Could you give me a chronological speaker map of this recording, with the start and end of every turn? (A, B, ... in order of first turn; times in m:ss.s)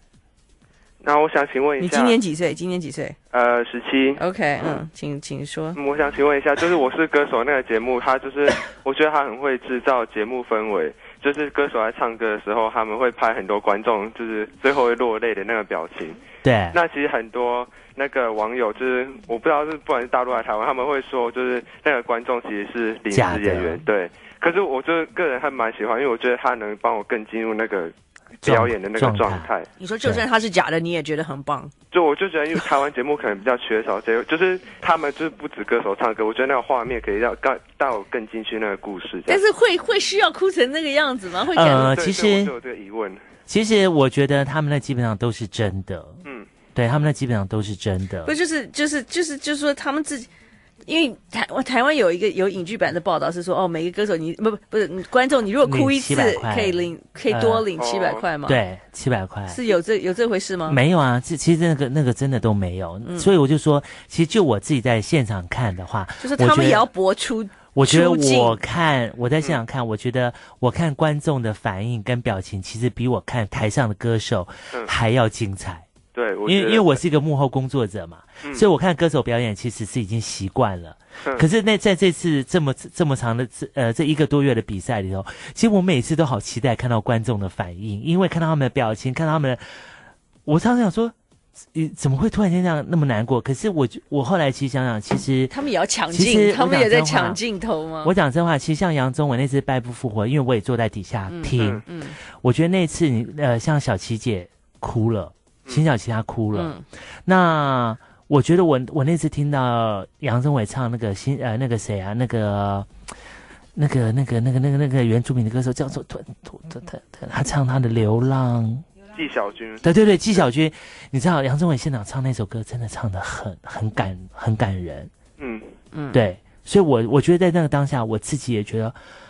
0:01.0-0:02.2 A
0:01.8-0:03.2 B
0:03.3-0:04.2 A
0:04.2-0:05.8 B
0:05.8-0:16.2 A
0:16.4-0:16.8 C
0:16.7-0:29.7 A
0:23.1-0:23.8 C
0:28.4-0:29.5 C
0:29.8-0:31.7 B
0:31.9-0:39.4 A
0:39.3-0:42.0 B
0:41.5-0:42.5 C
0:41.8-0:43.2 A
0:43.5-0:46.2 C
0:46.8-0:48.3 C
0:48.3-0:50.3 B
0:50.9-0:58.6 B
0:55.6-0:57.7 C
0:57.8-0:58.2 A
0:58.5-0:59.6 C
0:59.5-1:00.8 B
1:00.7-1:06.9 C
1:03.0-1:03.3 B
1:06.2-1:08.6 B
1:07.7-1:15.9 C
1:16.1-1:17.0 A
1:16.4-1:29.8 C
1:30.5-1:31.2 C
1:31.7-1:35.5 C
1:35.5-1:38.1 B
1:36.1-1:37.4 C
1:38.0-1:52.9 C
1:41.3-1:42.2 B
1:41.6-1:41.8 A
1:46.5-1:46.8 B
1:53.8-1:58.8 C
1:59.1-1:59.9 A
1:59.8-2:05.1 C
2:05.4-2:05.7 A
2:05.9-2:06.2 B
2:06.1-2:09.0 C